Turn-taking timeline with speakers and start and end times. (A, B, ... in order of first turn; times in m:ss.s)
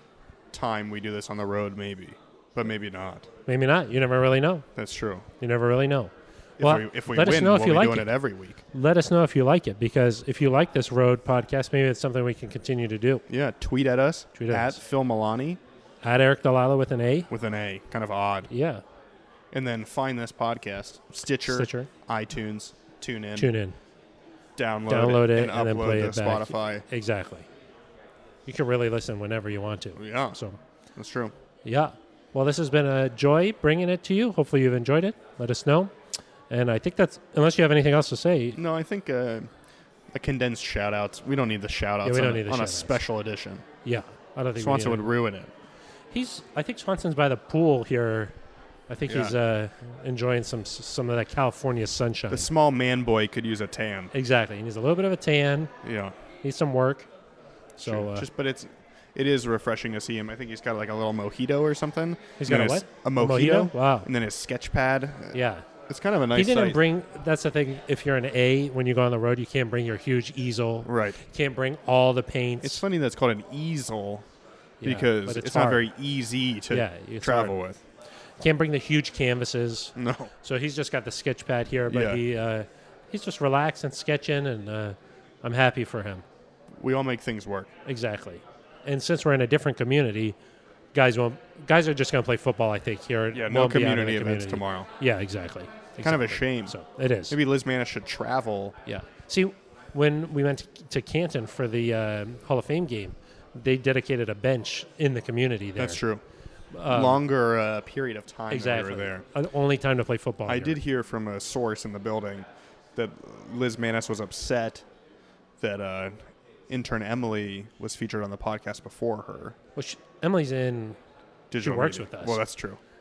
0:00.5-0:03.3 A
0:03.5-0:04.7 B
0:04.8-0:05.3 A
0:05.4-0:08.1 B
0:06.6-0:08.6 A
0:08.7-0:13.2 B
0:13.3-0:15.6 A
0:14.4-0:14.8 B
0:16.0-0:17.3 B
0:17.3-0:18.5 A
0:18.5-0:18.8 B
0:19.5-0:23.5 A
0:21.5-0:21.9 B
0:23.4-0:23.8 B
0:24.6-0:26.8 A
0:24.9-0:27.5 B
0:28.5-0:30.6 B
0:30.0-0:30.4 A
0:31.0-0:31.3 A
0:31.6-0:35.9 B
0:36.5-0:38.6 B
0:38.6-0:39.5 A
0:40.1-0:43.6 A
0:42.0-0:43.0 B
0:43.8-0:45.1 B
0:44.6-0:45.5 A
0:46.1-0:48.3 B
0:48.9-0:52.5 B
0:49.1-0:49.4 A
0:52.3-0:54.1 A
0:54.1-0:55.7 B
0:55.8-0:56.2 A
0:56.4-0:57.1 B
0:57.8-0:58.3 B
0:57.8-1:06.8 A
1:02.4-1:04.1 B
1:05.3-1:05.7 B
1:06.3-1:12.8 B
1:10.8-1:11.2 A
1:12.6-1:14.2 A
1:14.8-1:15.8 B
1:14.8-1:17.8 A
1:16.7-1:17.6 B
1:18.4-1:26.2 B
1:20.0-1:20.3 A
1:21.9-1:22.2 A
1:26.8-1:27.7 A
1:27.9-1:30.4 B
1:30.9-1:37.4 B
1:33.3-1:34.9 A
1:36.0-1:36.8 A
1:37.3-1:38.8 A
1:38.9-1:46.0 B
1:45.8-1:46.2 A
1:46.7-1:47.2 B
1:46.9-1:49.2 A
1:48.5-1:50.8 B
1:50.5-1:54.8 A
1:55.6-1:56.2 A
1:56.7-1:59.6 A
1:59.8-2:01.0 B
2:01.5-2:02.8 A
2:01.6-2:02.4 B